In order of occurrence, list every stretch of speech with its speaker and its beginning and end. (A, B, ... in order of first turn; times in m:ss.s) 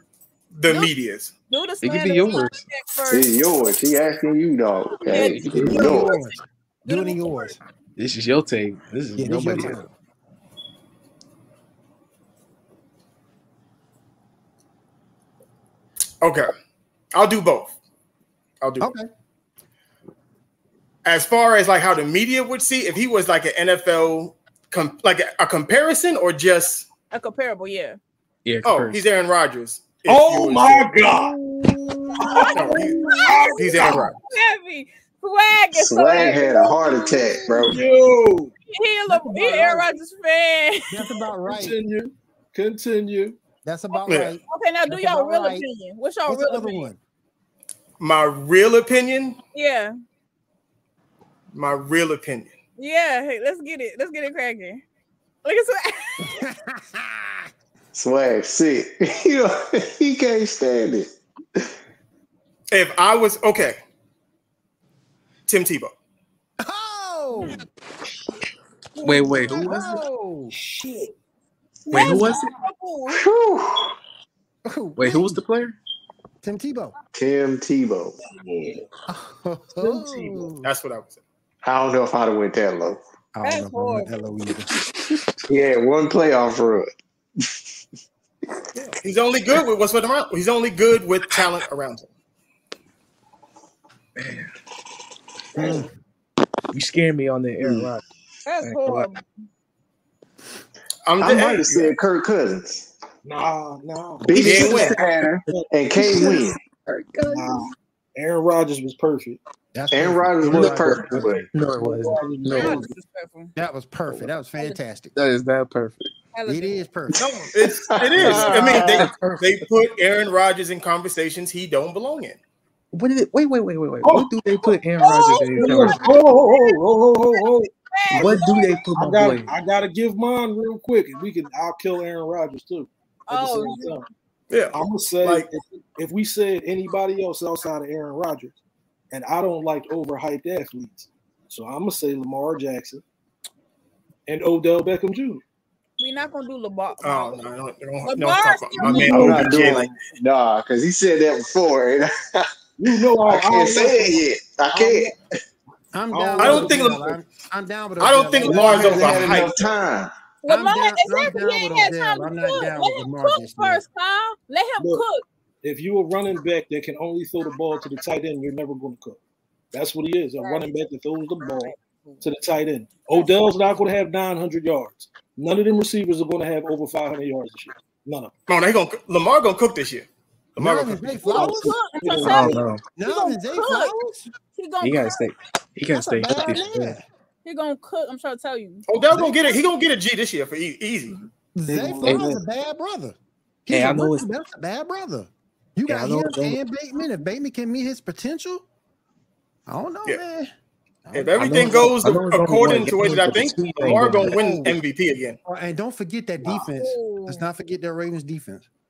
0:00.5-0:01.3 A
0:01.5-0:03.4 B
0:01.8-0:02.6 C
0:03.1-0:06.1 D
0:05.1-0:07.6 B
0:05.1-0:06.0 C
0:05.5-0:07.6 E
0:08.0-0:09.8 C
0:09.2-0:09.9 E
0:16.2-0:16.5 A
0:17.1-0:17.7 A
0:18.6-0:18.9 A
0:18.8-0:19.1 E
0:21.0-0:26.9 A
0:27.1-0:28.0 B
0:28.4-0:29.0 C
0:28.6-0:30.9 A
0:30.1-0:31.4 F
0:31.1-0:32.5 E
0:32.2-0:34.1 F
0:32.3-0:37.4 B
0:32.5-0:34.2 A
0:35.7-0:37.8 D
0:37.6-0:38.5 F
0:38.7-0:41.0 B
0:39.1-0:39.9 E
0:40.9-0:41.8 E
0:41.4-0:43.4 F
0:43.6-0:45.6 E
0:43.9-0:46.9 B
0:44.1-0:44.4 A
0:46.3-0:47.0 E
0:48.0-0:49.4 A
0:49.5-0:49.9 B
0:51.5-0:52.5 A
0:52.8-0:54.8 B
0:55.4-0:56.4 B
0:56.2-0:57.5 E
0:57.9-1:01.1 D
1:02.7-1:03.8 A
1:05.5-1:05.9 A
1:06.6-1:07.6 E
1:09.0-1:09.7 B
1:09.0-1:10.0 C
1:09.4-1:10.5 E
1:10.5-1:11.1 F
1:11.9-1:12.5 C
1:11.9-1:13.2 B
1:13.1-1:13.9 D
1:14.7-1:15.4 E
1:15.0-1:15.8 C
1:16.4-1:16.9 E
1:17.1-1:18.2 D
1:18.3-1:18.8 F
1:19.1-1:20.7 E
1:19.8-1:20.5 F
1:20.6-1:21.2 A
1:21.6-1:23.0 D
1:23.3-1:24.7 E
1:23.4-1:24.1 B
1:25.5-1:26.9 D
1:28.7-1:32.1 A
1:34.2-1:34.5 C
1:35.6-1:35.9 E
1:36.7-1:38.0 C
1:38.4-1:39.3 B
1:38.6-1:39.1 C
1:41.0-1:42.0 A
1:41.2-1:42.9 D
1:43.2-1:45.7 F
1:44.2-1:46.6 D
1:44.4-1:45.0 A
1:45.9-1:47.7 C
1:47.3-1:49.4 F
1:49.7-1:51.5 E
1:49.9-1:51.5 D
1:50.5-1:52.8 C
1:51.7-1:52.9 F
1:52.5-1:53.5 B
1:53.6-1:55.1 E
1:55.1-1:56.1 C
1:56.3-1:56.8 B
1:56.4-1:57.2 E
1:57.2-1:59.0 D
1:57.2-2:02.4 A
1:58.2-1:59.6 C
2:02.9-2:06.1 C
2:04.0-2:08.4 F
2:05.0-2:06.8 B
2:07.9-2:08.8 B
2:08.1-2:09.5 C
2:08.9-2:14.1 F
2:13.3-2:14.0 B
2:14.5-2:15.5 A
2:14.7-2:18.6 F
2:19.1-2:23.0 F
2:24.3-2:25.4 F
2:26.0-2:27.4 B
2:27.0-2:29.9 A
2:28.0-2:29.6 B
2:28.8-2:35.1 D
2:32.8-2:35.1 F
2:35.9-2:39.4 E
2:36.1-2:37.1 F
2:36.4-2:37.1 A
2:38.0-2:39.5 A
2:38.4-2:40.1 D
2:40.4-2:45.2 B
2:40.5-2:43.8 E
2:44.8-2:45.0 F
2:45.6-2:49.2 F
2:49.7-2:58.3 F
2:50.4-2:50.7 B
2:51.4-2:52.3 B
2:53.1-2:53.4 B
2:58.5-3:01.0 A
3:00.6-3:04.3 E
3:01.2-3:03.9 B
3:01.3-3:02.7 F
3:02.2-3:02.8 C
3:04.5-3:05.3 B
3:04.8-3:07.0 C
3:05.9-3:07.0 E
3:07.4-3:08.9 B
3:08.9-3:11.2 A
3:11.5-3:13.2 E
3:11.7-3:12.3 F
3:12.0-3:12.4 C
3:13.7-3:18.6 E
3:13.7-3:14.2 C
3:15.9-3:16.6 C
3:19.7-3:20.5 E
3:21.0-3:22.0 E
3:21.1-3:25.4 A
3:21.4-3:24.4 C
3:24.0-3:24.8 E
3:25.4-3:28.7 E
3:26.5-3:27.4 B